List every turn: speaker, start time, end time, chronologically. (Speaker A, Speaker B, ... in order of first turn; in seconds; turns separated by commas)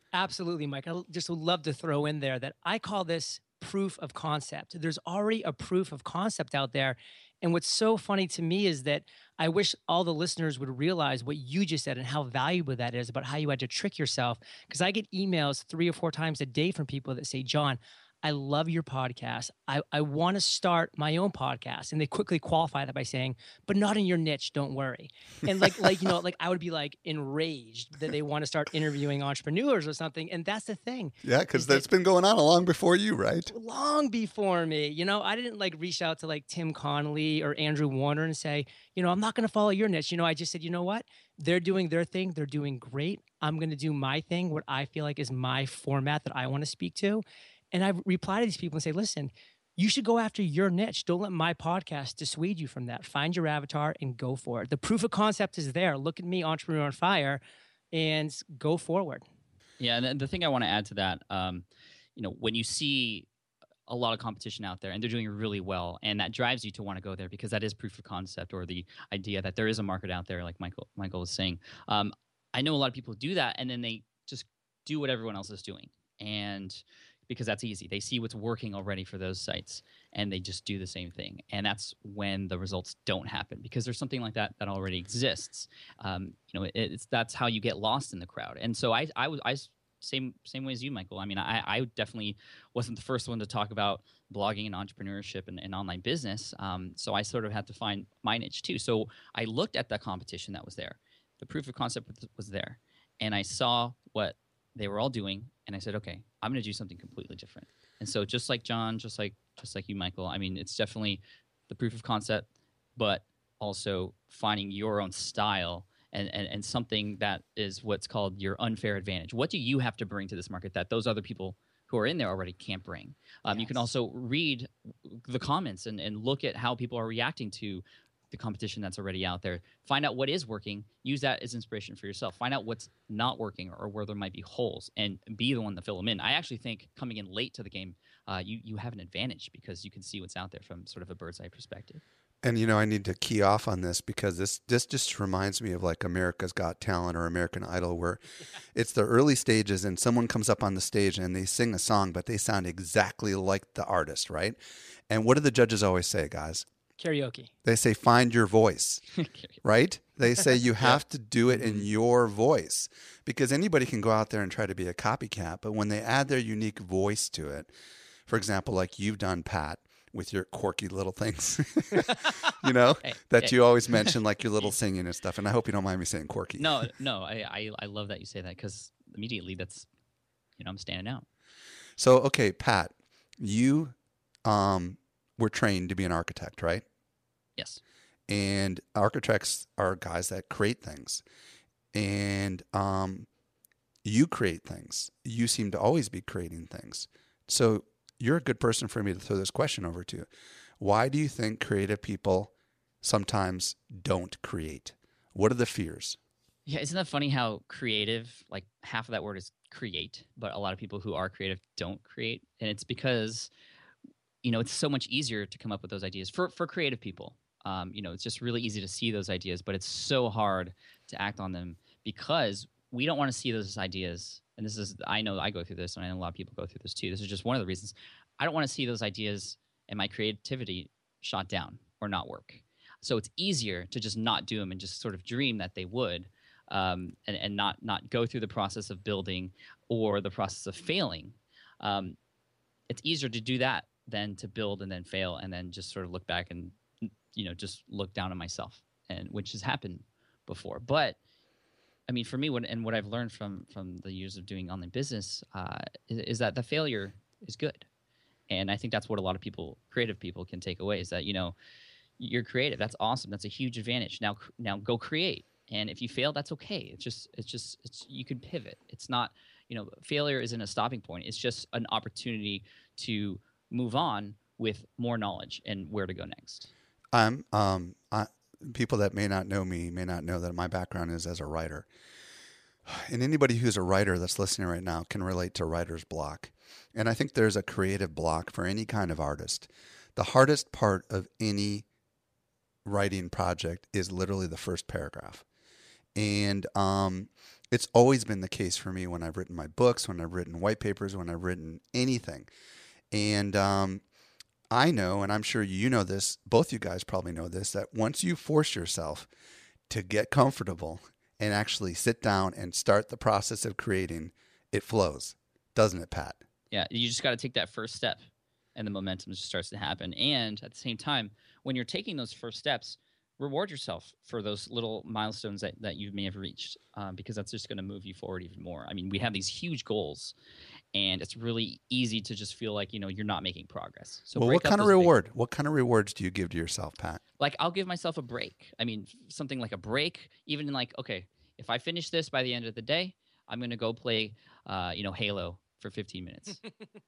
Speaker A: 0.1-31.9, Speaker B: 31.2-33.5, Speaker A: 33.5-57.4, Speaker A: 57.9-59.2, Speaker C: 59.8-63.3, Speaker C: 63.9-142.0, Speaker A: 123.5-123.8, Speaker B: 142.4-148.2, Speaker B: 148.7-154.6, Speaker B: 155.1-156.7, Speaker A: 157.0-157.5, Speaker B: 157.6-159.0, Speaker C: 159.1-159.6, Speaker B: 159.6-167.7, Speaker B: 168.3-176.7, Speaker C: 173.0-174.1, Speaker C: 176.6-179.9, Speaker C: 180.6-181.2, Speaker B: 182.0-183.9, Speaker B: 184.4-186.8, Speaker C: 187.6-187.8, Speaker B: 188.3-191.2, Speaker B: 191.9-193.3, Speaker B: 194.0-200.3, Speaker B: 200.8-206.2, Speaker C: 206.7-213.5, Speaker C: 214.4-242.2, Speaker C: 242.9-251.2, Speaker C: 252.1-257.9, Speaker C: 258.5-261.5, Speaker C: 262.2-276.7, Speaker B: 277.1-281.9, Speaker B: 282.9-291.8, Speaker B: 292.8-295.4, Speaker B: 296.1-302.5, Speaker B: 303.1-304.0, Speaker B: 304.7-309.3, Speaker B: 309.9-316.4, Speaker C: 316.7-318.2, Speaker C: 318.7-330.3, Speaker C: 330.9-335.1, Speaker B: 334.3-337.2, Speaker C: 337.4-346.6